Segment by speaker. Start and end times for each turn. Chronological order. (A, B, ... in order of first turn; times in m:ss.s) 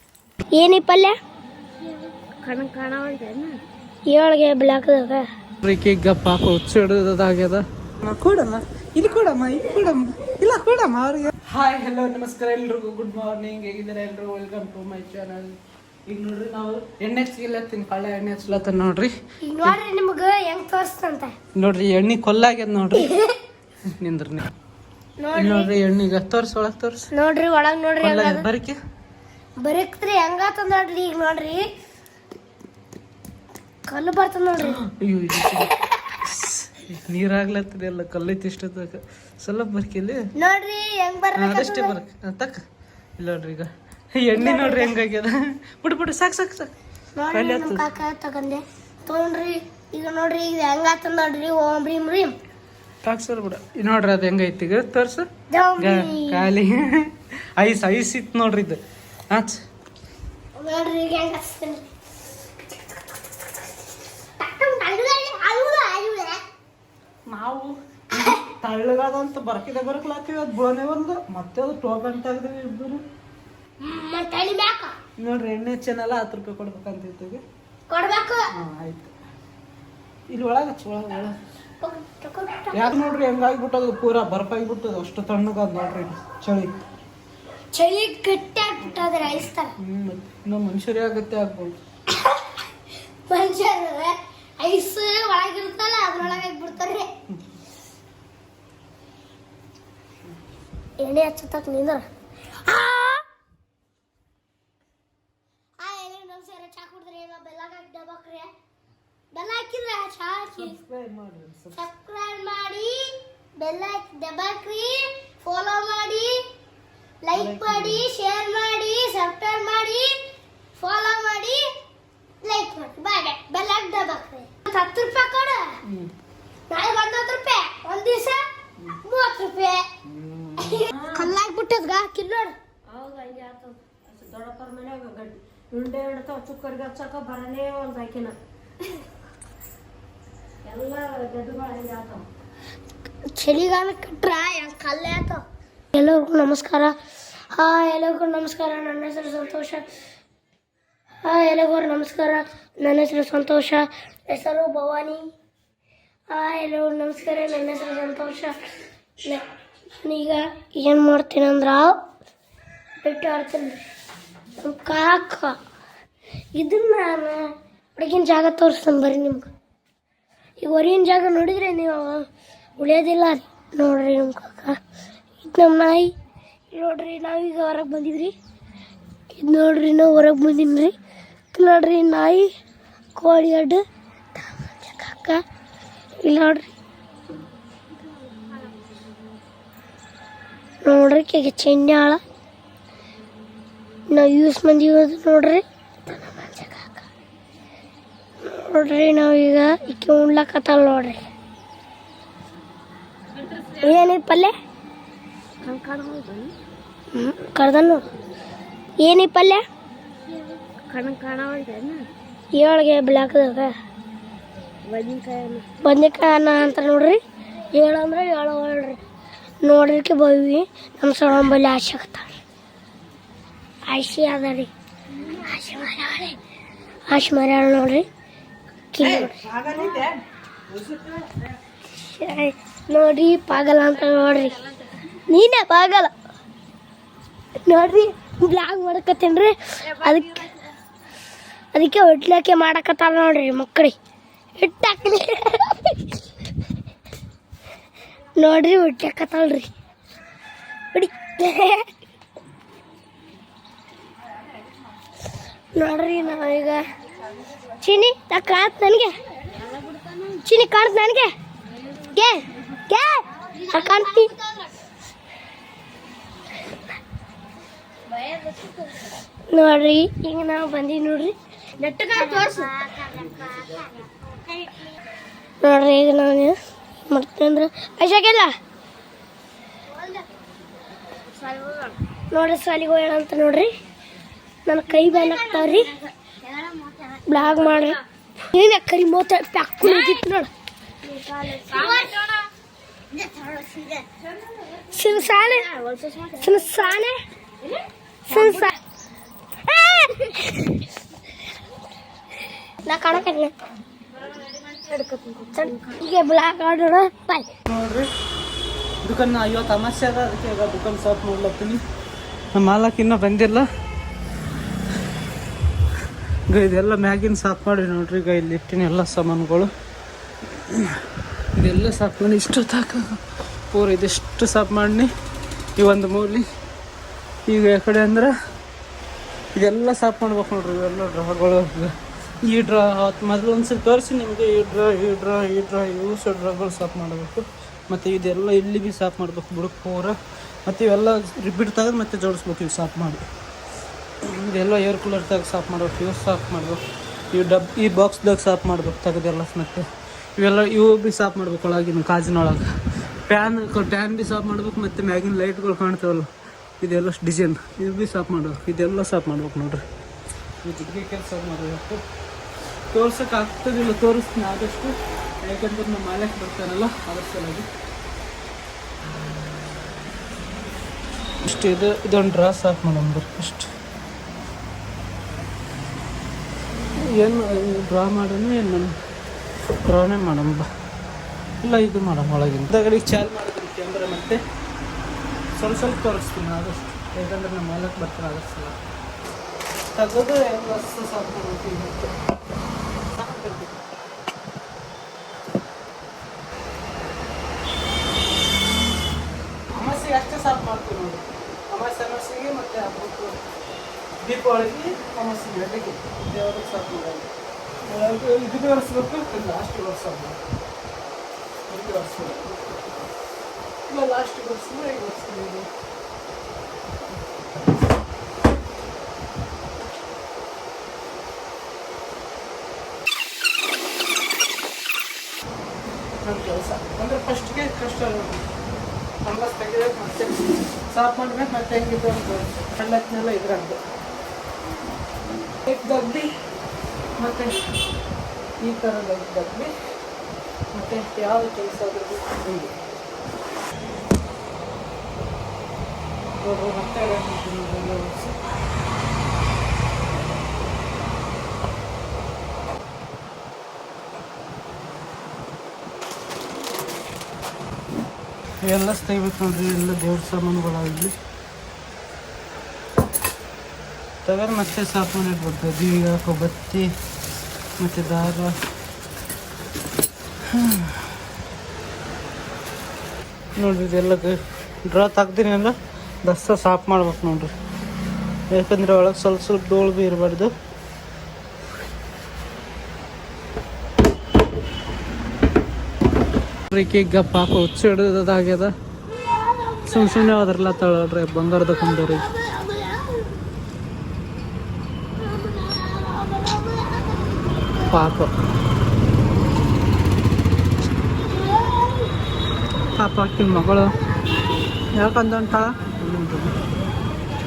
0:00.5-0:01.2 A
0:02.3-0:03.6 B
0:04.1-0:05.3 A
0:05.6-0:19.1 C
0:19.4-0:21.3 A
0:21.5-0:23.2 C
0:23.0-0:23.4 A
0:23.9-0:24.5 C
0:25.2-0:25.7 A
0:25.4-0:27.1 C
0:27.1-0:28.5 A
0:28.0-0:28.8 C
0:29.6-0:31.6 A
0:33.9-0:34.8 A
0:34.6-0:40.3 C
0:40.4-0:42.0 A
0:41.4-0:42.6 C
0:43.2-0:46.7 C
0:44.3-0:44.9 A
0:47.1-0:52.4 A
0:47.3-0:47.9 C
0:53.0-0:59.6 C
0:55.5-0:56.5 A
1:00.6-1:01.9 A
1:04.4-1:06.4 A
1:07.3-1:13.0 C
1:13.8-1:14.9 A
1:15.2-1:17.4 C
1:17.9-1:18.4 A
1:18.5-1:19.1 C
1:20.3-1:21.4 C
1:21.8-1:23.0 A
1:22.7-1:26.8 C
1:27.7-1:29.7 A
1:29.8-1:31.8 C
1:33.3-1:37.1 A
1:41.0-1:42.0 A
1:42.6-1:43.2 A
1:45.8-1:48.5 A
1:49.3-1:50.8 A
1:50.6-1:51.8 C
1:51.8-1:56.4 A
1:57.2-2:00.2 A
1:57.3-1:58.1 C
2:00.8-2:01.7 A
2:02.4-2:05.8 A
2:05.9-2:06.1 C
2:06.7-2:08.5 A
2:09.0-2:09.9 A
2:10.5-2:12.5 A
2:11.0-2:11.3 B
2:12.9-2:18.4 B
2:20.6-2:22.2 B
2:23.3-2:25.4 A
2:25.9-2:26.9 A
2:27.5-2:29.9 A
2:31.2-2:35.2 A
2:36.3-2:38.6 A
2:40.0-2:42.0 A
2:43.0-2:43.8 A
2:44.6-2:45.6 A
2:46.5-2:49.5 A
2:50.6-2:52.3 A
2:52.8-2:54.8 A
2:55.4-2:56.1 A
2:56.7-2:58.3 A
2:59.3-3:00.9 A
3:01.5-3:02.5 A
3:03.2-3:03.8 A
3:04.4-3:05.4 A
3:06.2-3:06.7 A
3:10.8-3:12.2 A
3:14.1-3:17.1 A
3:18.4-3:21.2 A
3:23.8-3:24.5 A
3:25.6-3:26.6 B
3:27.1-3:28.0 A
3:29.0-3:29.6 A
3:30.9-3:32.1 B
3:32.5-3:33.7 A
3:34.9-3:35.7 B
3:35.8-3:37.2 A
3:37.7-3:39.0 A
3:39.6-3:42.4 A
3:43.9-3:46.4 A
3:47.1-3:48.1 A
3:48.9-3:49.5 A
3:49.0-3:50.1 C
3:50.7-3:51.3 C
3:52.0-3:56.1 A
3:57.7-4:00.5 A
4:01.7-4:04.0 A
4:04.6-4:06.0 A
4:08.4-4:09.7 A
4:10.9-4:11.9 A
4:15.7-4:16.8 A
4:17.8-4:19.1 A
4:19.5-4:20.4 B
4:20.4-4:21.3 A
4:22.1-4:24.3 A
4:23.5-4:24.7 B
4:28.1-4:29.1 B
4:29.5-4:33.9 A
4:31.8-4:33.5 B
4:35.6-4:36.6 A
4:37.1-4:38.5 A
4:41.2-4:42.0 B
4:42.3-4:43.7 A
4:44.6-4:45.9 A
4:45.0-4:47.8 B
4:47.2-4:50.5 A
4:51.0-4:52.5 B
4:51.6-4:52.2 A
4:53.1-4:54.0 B
4:54.6-4:56.7 B
4:54.9-4:55.7 A
4:56.4-4:57.2 A
4:57.6-4:58.7 B
4:58.3-4:58.8 A
4:59.6-5:00.8 A
5:02.8-5:03.5 A
5:04.4-5:05.8 B
5:05.5-5:07.5 A
5:07.7-5:08.1 C
5:09.0-5:11.8 C
5:12.5-5:13.6 C
5:16.5-5:19.7 C
5:20.7-5:21.0 C
5:21.6-5:23.2 C
5:23.7-5:25.1 C
5:25.8-5:26.4 C
5:27.5-5:28.3 C
5:29.5-5:43.2 C
5:44.3-5:49.8 C
5:50.4-5:52.7 C
5:53.3-5:56.3 C
5:56.8-5:59.8 C
6:00.6-6:02.0 C
6:02.9-6:07.7 C
6:11.4-6:13.7 C
6:17.0-6:19.0 C
6:19.8-6:20.7 C
6:21.6-6:24.4 C
6:25.6-6:28.8 C
6:29.9-6:32.1 C
6:33.1-6:33.7 C
6:39.7-6:43.4 C
6:44.2-6:47.3 C
6:47.8-6:50.4 C
6:51.7-6:52.7 C
6:53.9-6:55.7 C
7:06.2-7:08.4 C
7:09.2-7:13.8 C
7:15.6-7:16.3 C
7:17.2-7:17.7 C
7:18.6-7:19.7 C
7:20.7-7:22.7 C
7:26.4-7:28.4 C
7:38.6-7:41.2 C
7:44.2-7:46.9 C
7:47.8-7:48.5 C
7:50.5-7:51.1 C
7:53.6-7:57.5 C
7:58.5-8:00.5 C
8:06.7-8:08.7 C
8:09.4-8:09.9 A
8:09.8-8:12.4 C
8:12.5-8:13.2 A
8:15.2-8:17.8 A
8:17.9-8:18.3 C
8:21.3-8:22.1 A
8:23.0-8:24.0 C
8:24.1-8:24.7 A
8:24.9-8:26.6 C